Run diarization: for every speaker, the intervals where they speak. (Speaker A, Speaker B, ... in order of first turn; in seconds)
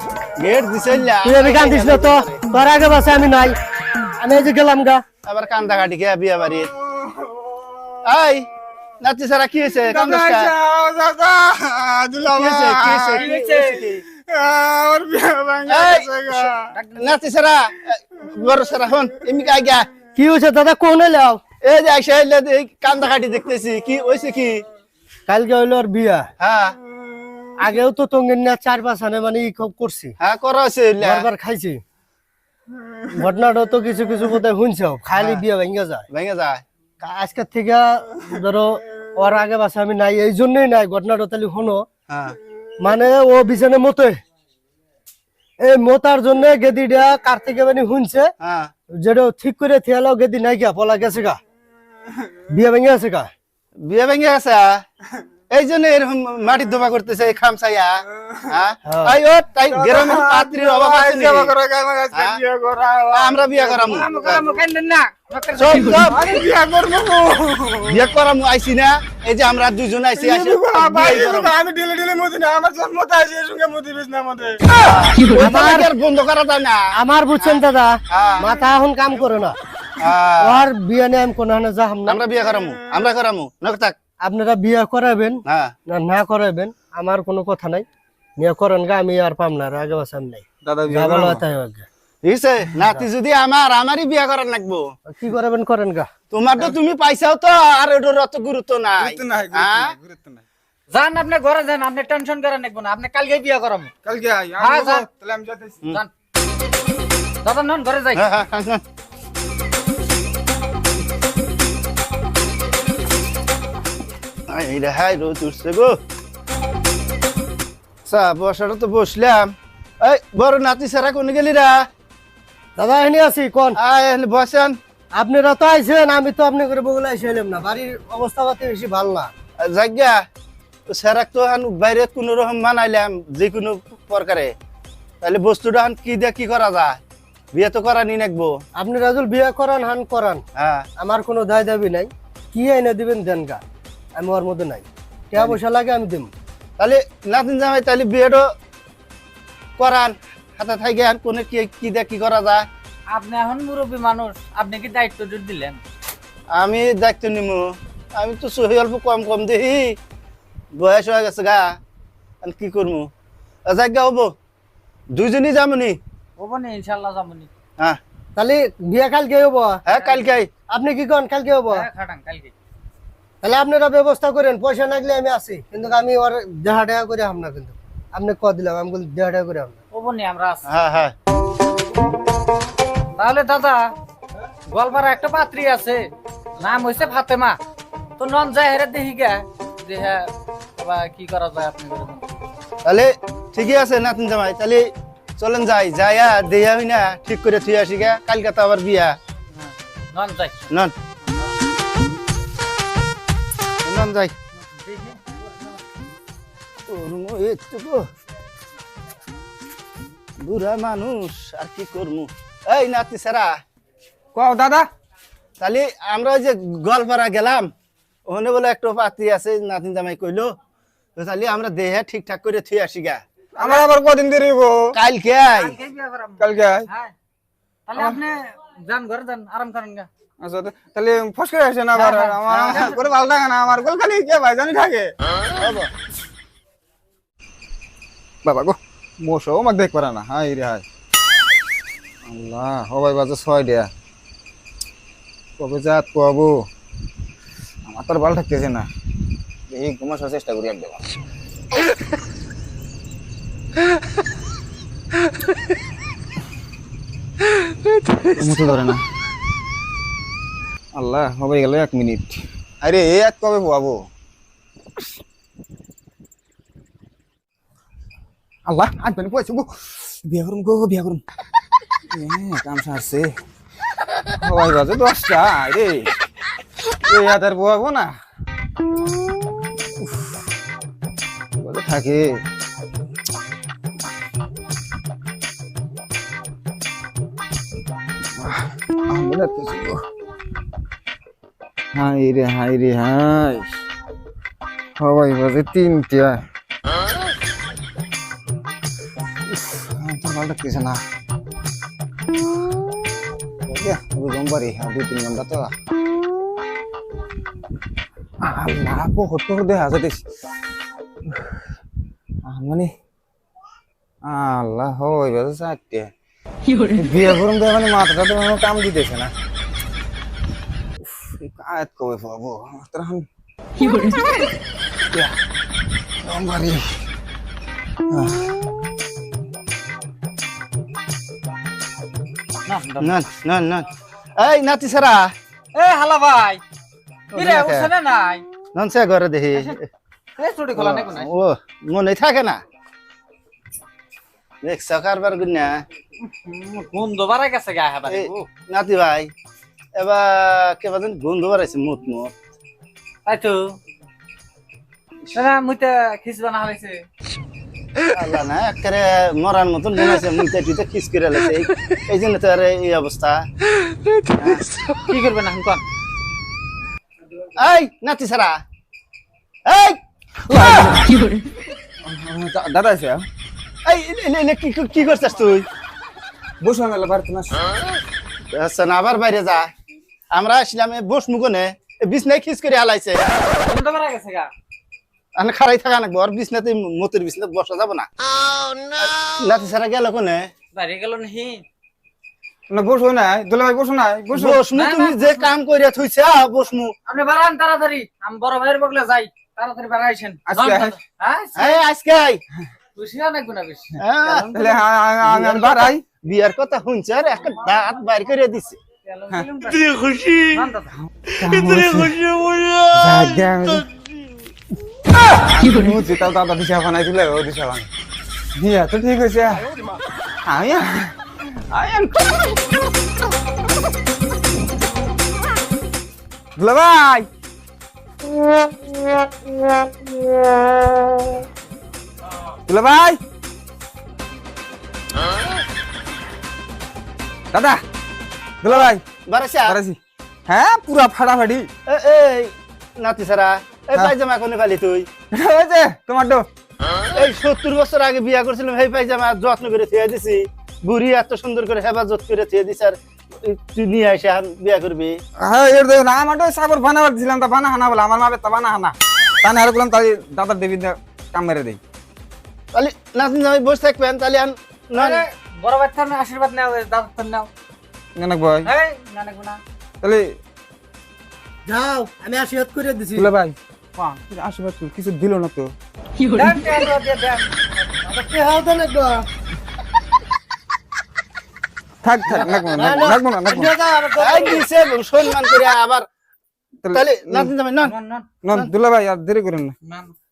Speaker A: 0.4-2.4, 5.2-6.7, 8.0-8.5, 9.0-10.5, 12.3-14.0, 15.7-19.9, 21.6-24.6, 26.4-26.8, 30.2-31.2, 35.1-35.4, 36.1-36.6, 42.1-42.4, 48.4-48.7, 53.8-54.8, 55.5-61.5, 62.1-62.4, 63.1-64.5, 65.5-66.2, 67.9-71.5, 74.7-76.9, 77.4-78.6, 80.0-80.7, 82.0-84.0, 85.5-85.7, 92.2-94.9, 96.3-99.9, 108.1-108.8, 114.5-116.0, 118.1-121.9, 123.8-124.8, 129.6-130.2, 130.9-134.5, 135.2-137.0, 137.5-138.6, 140.6-140.9, 146.8-148.5, 149.8-152.6, 156.5-160.0, 160.8-161.8, 162.4-163.1, 163.7-164.3, 165.1-166.0, 169.9-170.5, 180.7-181.1, 192.8-199.2, 203.8-204.3, 206.9-208.1, 210.4-213.6, 215.6-217.7, 218.3-220.6, 221.2-223.2, 224.9-225.8, 232.5-232.9, 235.6-235.9, 333.0-335.3, 337.3-337.9, 338.8-339.8, 340.8-342.6, 344.6-345.8, 348.1-349.3, 350.0-352.3, 358.1-363.4, 364.4-364.6, 367.6-368.6, 369.6-371.0, 373.9-375.6, 378.5-379.7, 380.3-383.4, 385.4-388.1, 388.9-390.5, 394.3-396.9, 401.6-402.4, 404.0-404.5, 405.2-408.8, 438.6-439.8, 441.9-445.1, 447.1-455.1, 462.7-465.2, 482.8-483.0, 484.2-486.0, 486.9-487.9
Speaker B: 1.2-3.5, 4.2-5.0, 20.1-21.4, 25.3-26.3, 27.6-30.2, 31.0-31.8, 33.1-36.0, 37.0-41.8, 42.8-44.2, 45.6-48.3, 49.0-51.4, 52.5-53.3, 58.9-59.2, 75.3-75.9, 77.0-79.6, 80.4-82.2, 84.2-87.8, 88.4-91.9, 95.1-96.1, 122.8-123.8, 125.2-129.3, 138.8-140.4, 141.0-143.6, 144.2-146.3, 168.4-169.8, 170.7-171.9, 173.4-179.8, 471.7-473.3, 478.0-479.2, 482.3-484.6
Speaker C: 6.8-8.0, 9.9-13.3, 14.1-16.7, 59.6-64.3, 66.0-68.1, 70.1-74.6, 90.6-91.4, 99.0-100.4, 104.0-105.8, 214.3-214.8, 223.6-224.9, 226.4-226.9, 230.4-235.1, 238.4-240.8, 242.2-243.9, 245.6-246.5, 247.9-248.9, 249.7-251.0, 258.3-259.0, 260.9-264.0, 268.6-269.6, 270.2-271.2, 272.1-273.3, 274.4-276.1, 277.1-278.1, 281.6-282.4, 288.4-290.0, 291.9-293.7, 295.0-296.4, 299.5-301.0, 303.7-305.7, 308.4-310.2, 312.4-312.9, 314.2-316.1, 316.8-319.3, 321.0-323.2, 326.2-326.9, 328.1-328.5, 372.0-373.2, 376.6-377.6, 392.7-394.6, 400.5-401.0, 404.4-406.0, 411.2-412.4, 412.9-413.9, 415.5-417.9, 418.6-419.7, 420.5-421.1, 421.7-422.6, 426.6-427.3, 432.7-433.2, 437.5-437.8, 438.6-439.0, 439.7-440.0, 440.5-441.7, 445.3-446.5, 455.4-461.8, 468.1-468.7, 473.1-473.6, 474.3-475.7, 482.0-483.7, 486.8-487.5, 488.4-489.8
Speaker D: 13.0-13.9, 16.7-17.1, 63.7-66.0, 100.9-103.9, 104.6-105.0, 107.4-108.3, 153.1-155.8, 166.4-167.5, 169.9-170.3, 171.7-172.5, 179.9-180.6, 183.2-183.9, 184.7-186.1, 186.6-187.6, 188.2-192.2, 199.6-200.7, 204.7-205.4, 223.6-223.9, 225.6-227.1, 227.9-230.1, 231.9-232.9, 332.6-333.1, 335.7-336.6, 337.3-338.4, 340.4-341.3, 346.4-348.5, 353.2-353.8, 355.3-357.0, 365.0-365.8, 383.6-384.5, 390.7-391.6, 394.7-395.5, 397.1-401.8, 402.9-404.9, 409.0-410.0, 410.5-410.9, 464.9-467.5, 468.6-469.6, 476.3-477.6, 487.8-488.3